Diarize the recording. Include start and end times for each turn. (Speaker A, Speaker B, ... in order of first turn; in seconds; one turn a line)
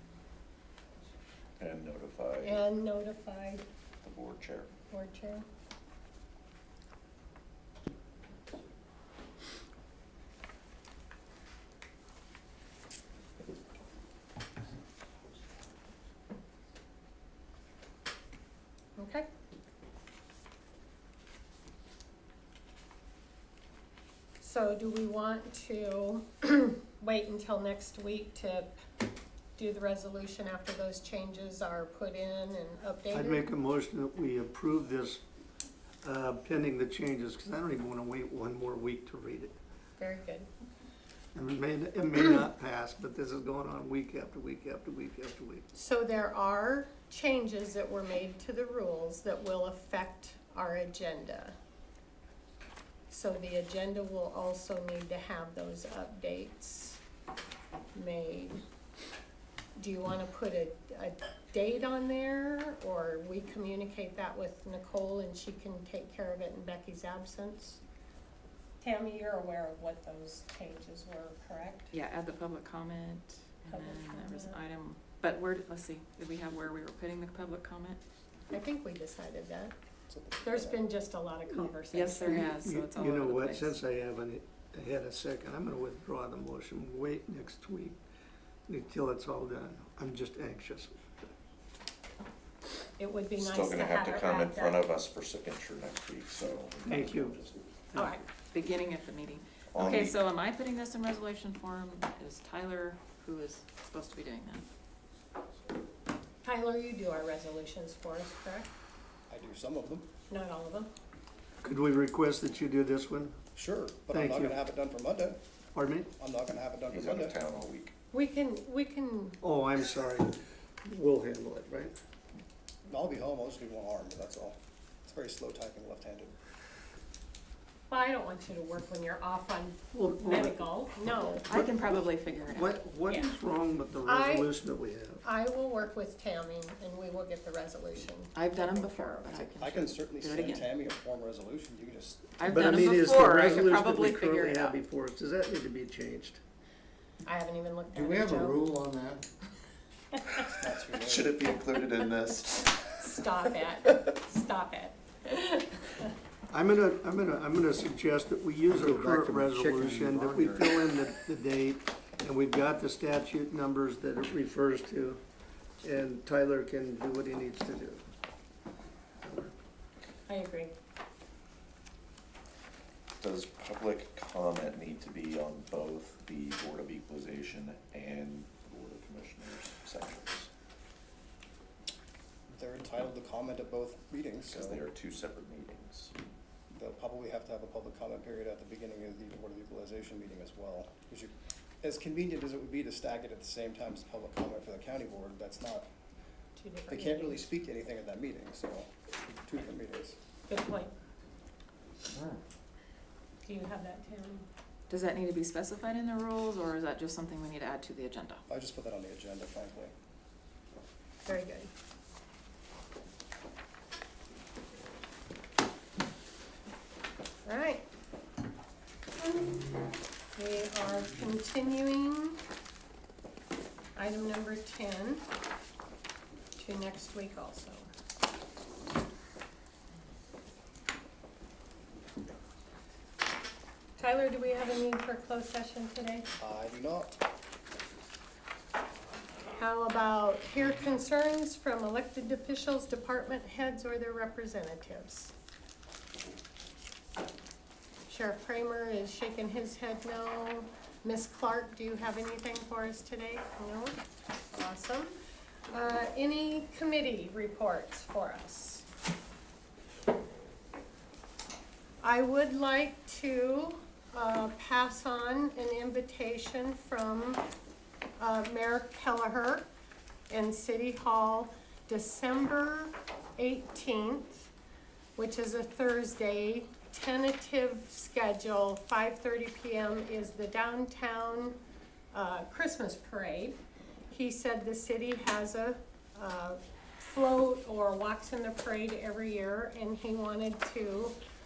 Speaker A: 1.6-2.6
Speaker B: 2.4-3.6
Speaker A: 4.0-4.7
Speaker B: 4.9-5.5
Speaker B: 19.0-19.3
Speaker B: 24.4-28.8
Speaker B: 29.6-33.5
Speaker C: 33.1-35.2
Speaker C: 36.0-39.6
Speaker B: 40.0-40.5
Speaker C: 41.4-45.6
Speaker B: 45.7-51.6
Speaker B: 53.1-57.0
Speaker B: 57.9-58.6
Speaker B: 59.8-67.8
Speaker B: 68.8-71.9
Speaker D: 71.9-78.0
Speaker B: 73.7-74.6
Speaker B: 78.5-79.8
Speaker E: 80.1-80.8
Speaker B: 80.4-82.5
Speaker D: 81.9-83.7
Speaker C: 82.3-88.0
Speaker C: 88.7-91.0
Speaker B: 93.0-94.9
Speaker A: 93.4-97.7
Speaker C: 96.9-97.4
Speaker C: 97.9-98.2
Speaker B: 97.9-98.2
Speaker D: 98.5-104.7
Speaker A: 99.7-100.2
Speaker B: 106.4-108.7
Speaker E: 109.3-110.1
Speaker B: 110.3-110.9
Speaker C: 111.6-113.4
Speaker E: 113.5-115.4
Speaker C: 114.1-114.6
Speaker C: 115.8-116.1
Speaker E: 116.2-117.4
Speaker A: 116.9-117.9
Speaker B: 118.1-119.4
Speaker C: 119.4-121.9
Speaker E: 122.9-126.3
Speaker B: 127.9-131.5
Speaker C: 129.9-135.2
Speaker D: 131.5-132.8
Speaker B: 133.1-133.3
Speaker B: 134.1-134.5
Speaker B: 135.2-138.3
Speaker D: 138.3-140.7
Speaker E: 139.2-142.3
Speaker D: 142.4-144.8
Speaker C: 142.5-146.4
Speaker B: 147.2-148.7
Speaker F: 147.9-149.3
Speaker B: 150.3-150.6
Speaker E: 150.5-151.5
Speaker A: 150.9-153.0
Speaker B: 153.0-156.1
Speaker C: 156.5-165.2
Speaker F: 158.7-160.8
Speaker C: 165.8-168.0
Speaker B: 170.3-170.7
Speaker A: 173.2-180.5
Speaker E: 182.5-184.8
Speaker A: 184.5-186.1
Speaker E: 186.8-195.9
Speaker B: 196.6-197.4
Speaker E: 196.9-198.9
Speaker E: 199.4-200.2
Speaker B: 200.5-200.9
Speaker B: 203.4-204.5
Speaker D: 204.9-208.4
Speaker E: 208.5-209.9
Speaker B: 211.3-211.7
Speaker B: 217.4-217.8
Speaker B: 220.4-222.4
Speaker B: 224.0-225.3
Speaker B: 226.6-227.9
Speaker B: 234.0-236.3
Speaker E: 236.4-237.2
Speaker B: 239.6-245.3
Speaker B: 248.1-254.0
Speaker B: 254.5-255.2
Speaker B: 255.7-258.9
Speaker B: 262.0-267.4
Speaker B: 268.2-269.7
Speaker B: 270.3-274.5
Speaker B: 275.2-281.6
Speaker B: 282.1-283.6
Speaker B: 284.1-291.2